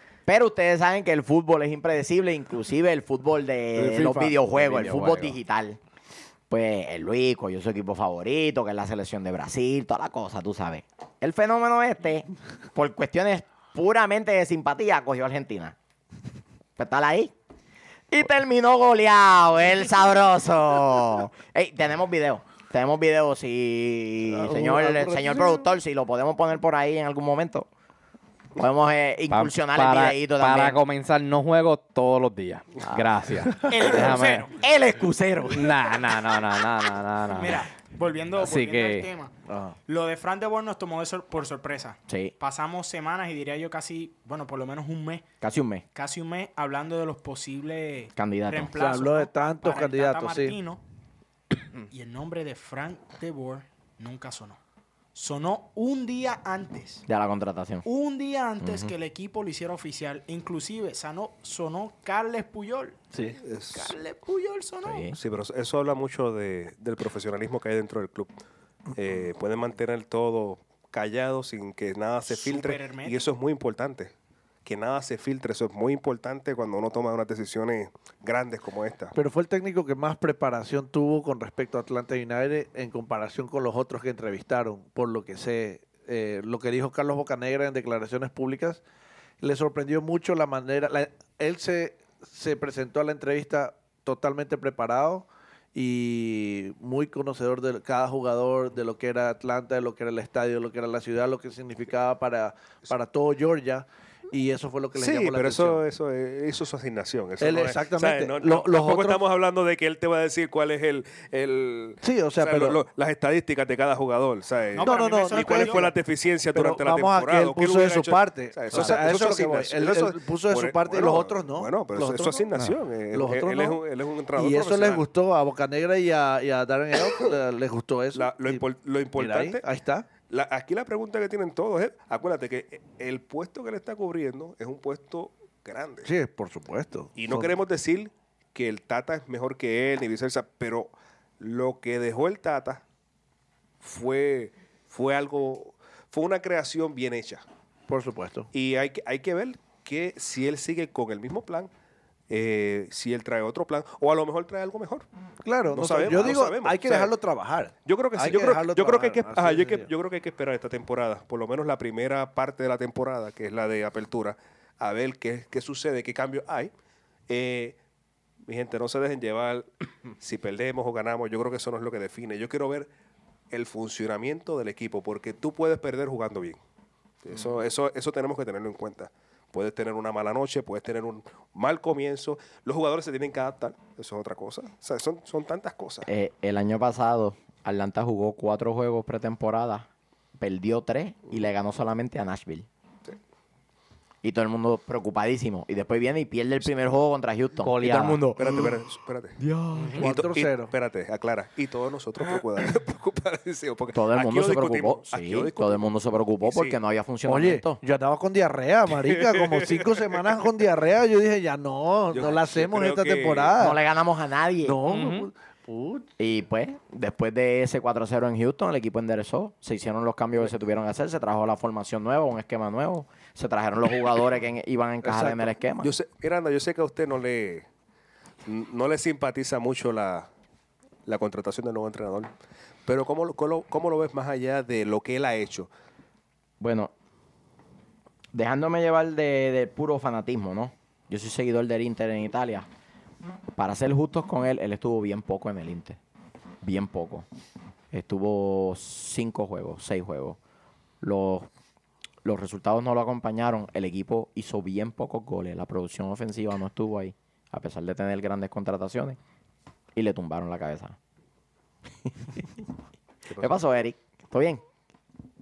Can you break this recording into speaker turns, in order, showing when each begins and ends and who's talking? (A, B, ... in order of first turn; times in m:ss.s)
0:00.3-0:05.8 A
0:03.8-0:05.4 B
0:06.5-0:15.8 A
0:16.8-0:17.3 A
0:18.1-0:27.7 A
0:24.3-0:25.7 C
0:28.6-0:30.8 A
0:29.3-0:34.5 B
0:32.8-0:33.1 A
0:33.6-0:34.6 D
0:34.6-0:35.8 A
0:35.5-0:37.7 B
0:37.3-0:39.3 D
0:38.4-0:39.1 B
0:39.5-0:39.8 C
0:39.9-0:45.2 D
0:42.1-0:42.3 A
0:45.4-0:45.8 A
0:45.9-0:50.8 D
0:48.2-0:48.7 A
0:48.8-0:50.6 C
0:51.9-0:54.6 D
0:55.2-0:57.0 D
0:57.1-0:57.8 A
0:57.8-1:03.0 D
0:58.6-0:58.9 A
1:03.1-1:03.4 C
1:03.4-1:04.0 E
1:03.7-1:05.1 D
1:04.8-1:05.2 A
1:05.2-1:08.3 E
1:08.9-1:14.1 E
1:12.3-1:13.2 D
1:14.6-1:19.1 E
1:19.1-1:28.8 C
1:29.4-1:45.8 C
1:45.0-2:05.1 E
1:47.4-1:49.2 C
1:52.0-1:52.8 C
1:54.8-1:55.9 D
1:54.8-1:55.9 C
1:56.5-2:02.4 C
1:58.7-1:59.0 A
2:03.1-2:03.8 C
2:04.4-2:08.6 C
2:08.1-2:09.6 E
2:09.2-2:10.1 C
2:10.3-2:16.1 E
2:16.0-2:17.5 C
2:17.2-2:22.8 E
2:23.8-2:27.4 E
2:27.9-2:28.5 C
2:28.5-2:31.7 E
2:32.3-2:35.0 E
2:35.4-2:39.9 C
2:35.7-2:37.1 E
2:37.9-2:46.7 E
2:47.3-2:47.8 E
2:48.5-2:52.9 E
2:53.5-2:56.6 E
2:57.2-3:06.1 E
3:06.1-3:12.7 A
3:14.2-3:18.8 A
3:17.6-3:18.3 B
3:18.4-3:19.4 E
3:19.4-3:20.1 A
3:19.8-3:20.0 B
3:20.0-3:20.7 C
3:20.0-3:26.8 E
3:23.9-3:27.8 A
3:27.3-3:33.8 C
3:28.9-3:30.4 E
3:32.1-3:33.6 E
3:33.6-3:34.8 A
3:34.6-3:36.1 C
3:34.9-3:35.3 B
3:36.2-3:45.9 A
3:45.1-3:45.4 C
3:45.8-3:47.7 E
3:48.4-3:50.3 E
3:51.1-3:52.3 E
3:52.9-3:55.7 E
3:56.6-3:56.9 A
3:58.3-4:02.7 A
4:03.6-4:06.0 A
4:06.6-4:07.3 A
4:07.9-4:10.4 A
4:11.0-4:11.5 A
4:12.2-4:19.2 A
4:20.0-4:21.0 A
4:23.3-4:23.6 E
4:23.4-4:24.6 A